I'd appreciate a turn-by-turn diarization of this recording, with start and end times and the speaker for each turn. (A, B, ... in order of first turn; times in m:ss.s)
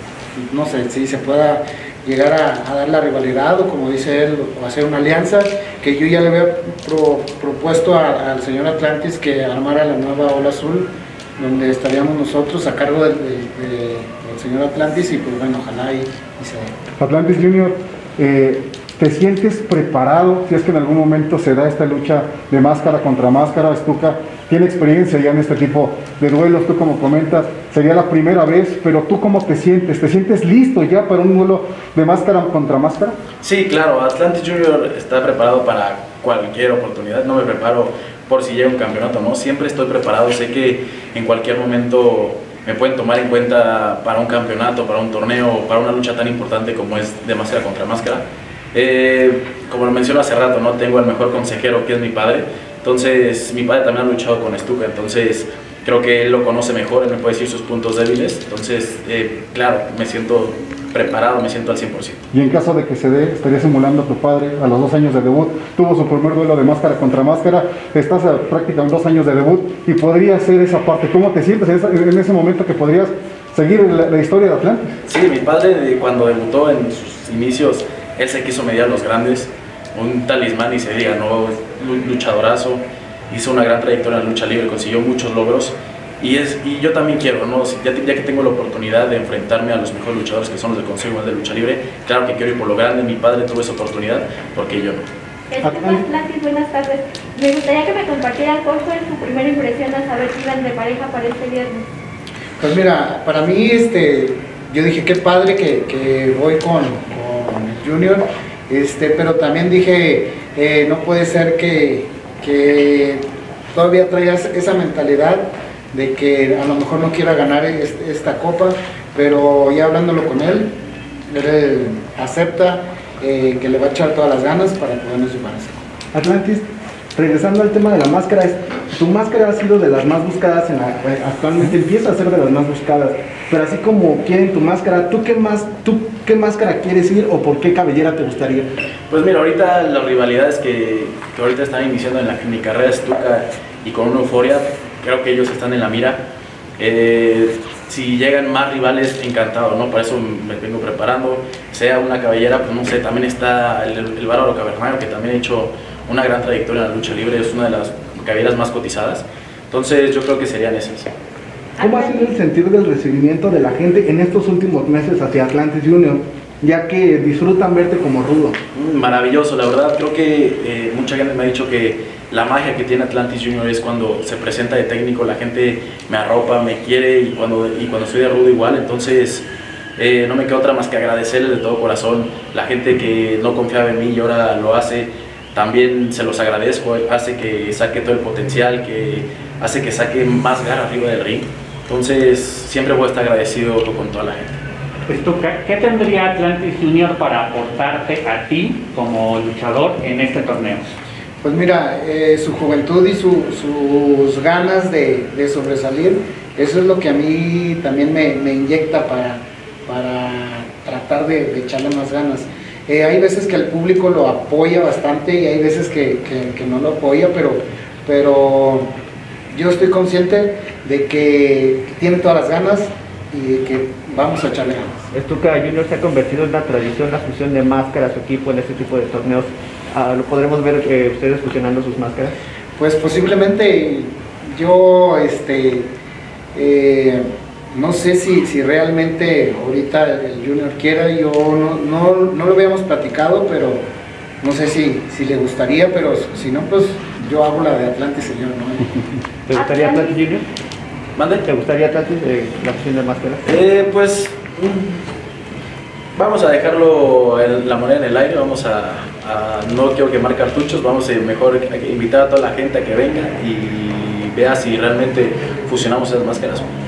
0:00.4-0:16.7 A
0:17.0-0:33.2 B
0:33.4-1:02.3 C
1:02.3-1:14.9 B
1:15.1-1:35.0 C
1:35.5-1:41.8 D
1:35.6-1:36.0 E
1:42.6-1:53.2 A
1:53.7-2:00.7 A
2:01.3-2:05.8 A
2:06.1-2:06.6 E
2:07.2-2:18.7 E
2:19.1-2:26.2 C
2:26.8-2:41.1 C
2:41.8-2:42.4 D
2:41.8-2:48.6 E
2:48.7-2:59.4 C
3:00.0-3:14.6 C
3:15.1-3:20.9 F
3:21.4-3:38.9 A
3:39.5-3:45.1 A
3:45.1-3:52.3 G
3:52.8-3:55.9 A
3:56.5-4:03.8 A
4:04.4-4:08.9 A
4:09.5-4:10.4 G
4:09.5-4:10.2 D
4:11.2-4:11.5 C
4:11.5-4:13.4 G
4:13.4-4:15.0 C
4:16.2-4:26.7 C